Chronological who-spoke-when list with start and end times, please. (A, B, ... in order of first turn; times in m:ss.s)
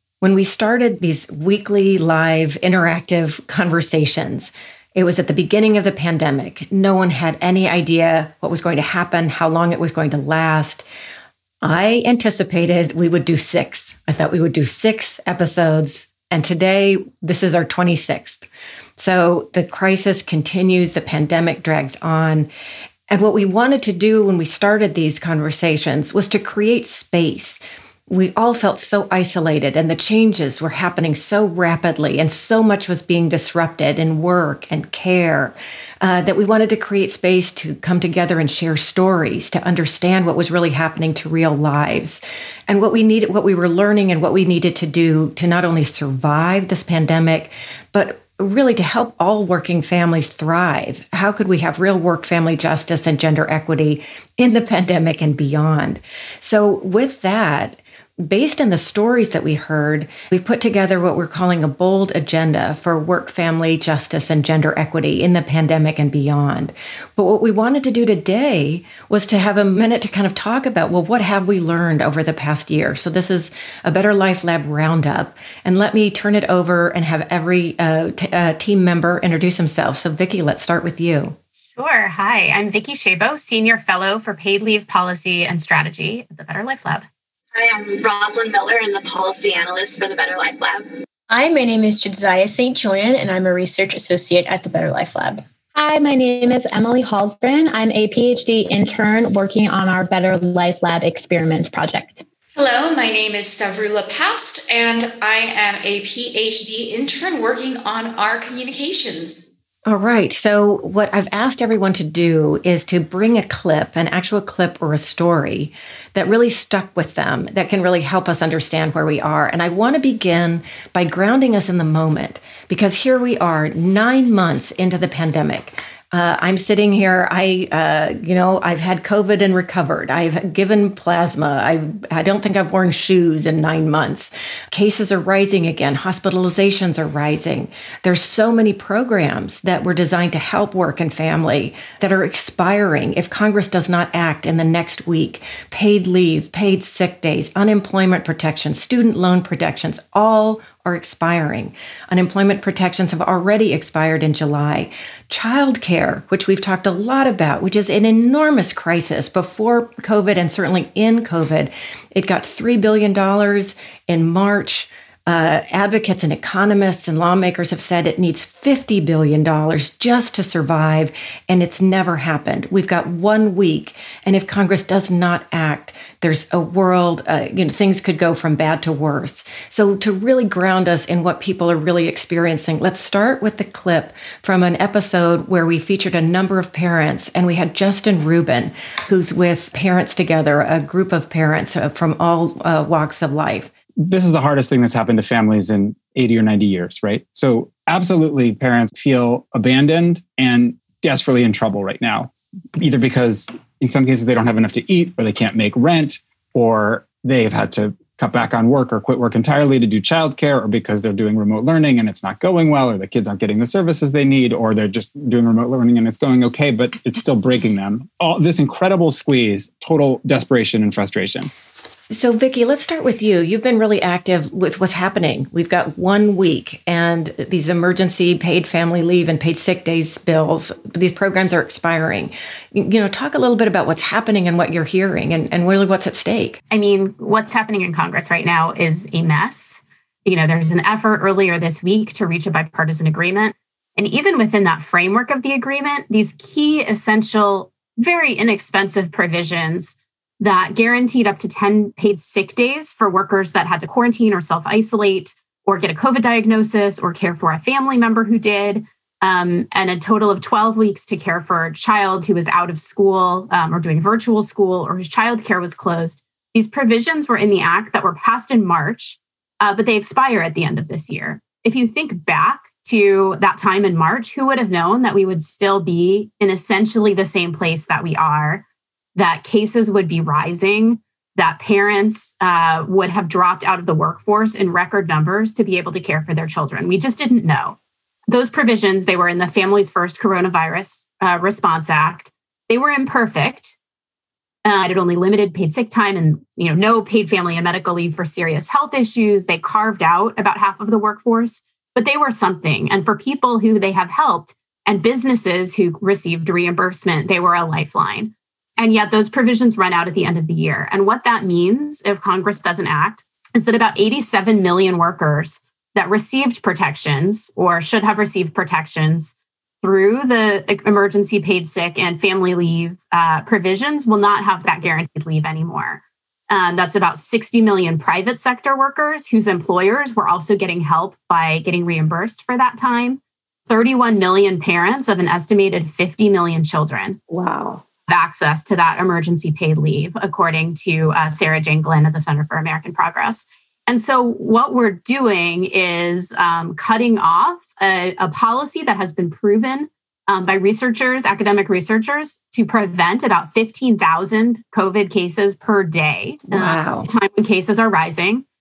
0:00.2-0:10.8 A
0:11.6-0:18.4 A
0:19.0-0:22.5 A
0:23.1-1:21.4 A
1:21.8-1:27.1 B
1:27.5-1:30.9 C
1:31.3-1:35.4 D
1:35.7-1:42.2 E
1:42.6-1:49.5 F
1:49.9-3:13.7 A
3:14.0-3:41.5 G
3:42.1-3:56.6 A
3:56.7-4:47.8 B
4:48.3-4:53.8 B
4:54.6-5:37.2 B
5:37.3-5:37.8 A
5:38.1-5:58.4 B
5:56.5-5:57.1 A